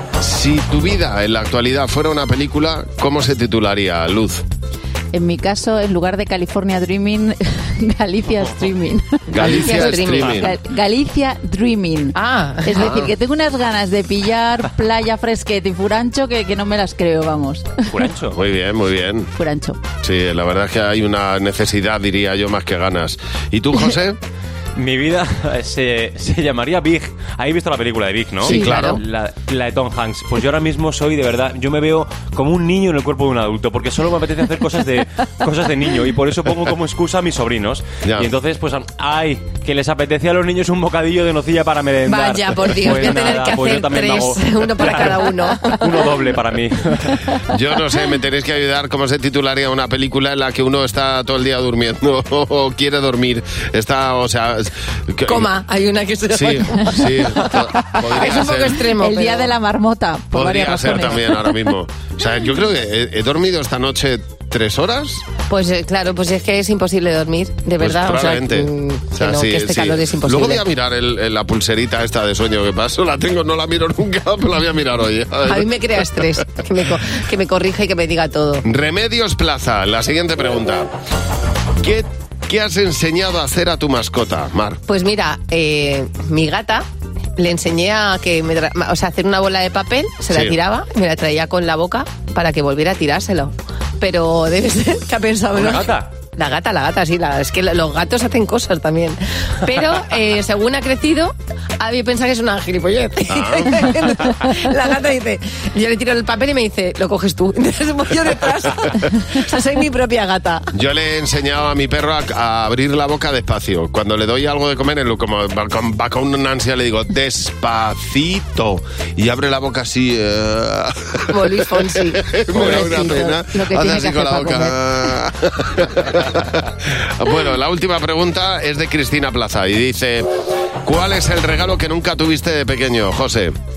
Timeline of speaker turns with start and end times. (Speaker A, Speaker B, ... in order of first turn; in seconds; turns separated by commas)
Speaker A: 0.2-4.4, Speaker B: 5.1-17.9, Speaker C: 9.3-10.4, Speaker A: 9.3-10.5, Speaker C: 12.2-12.9, Speaker D: 17.9-18.4, Speaker A: 18.3-19.3, Speaker B: 19.4-19.8, Speaker A: 20.0-24.2, Speaker D: 24.8-47.5, Speaker A: 28.4-29.0, Speaker B: 28.5-29.0, Speaker A: 38.0-38.3, Speaker C: 42.0-45.9, Speaker A: 47.5-55.5, Speaker C: 55.3-59.5, Speaker A: 56.3-58.8, Speaker B: 57.7-61.7, Speaker A: 60.3-65.2, Speaker C: 65.5-70.6, Speaker A: 67.8-76.4, Speaker C: 75.5-78.6, Speaker A: 78.6-80.9, Speaker A: 81.8-84.8, Speaker C: 84.9-86.8, Speaker C: 87.4-110.7, Speaker A: 90.3-90.6, Speaker D: 95.5-96.1, Speaker A: 103.3-103.8, Speaker A: 110.7-130.3, Speaker C: 121.3-123.3, Speaker B: 122.5-125.2, Speaker A: 130.8-133.6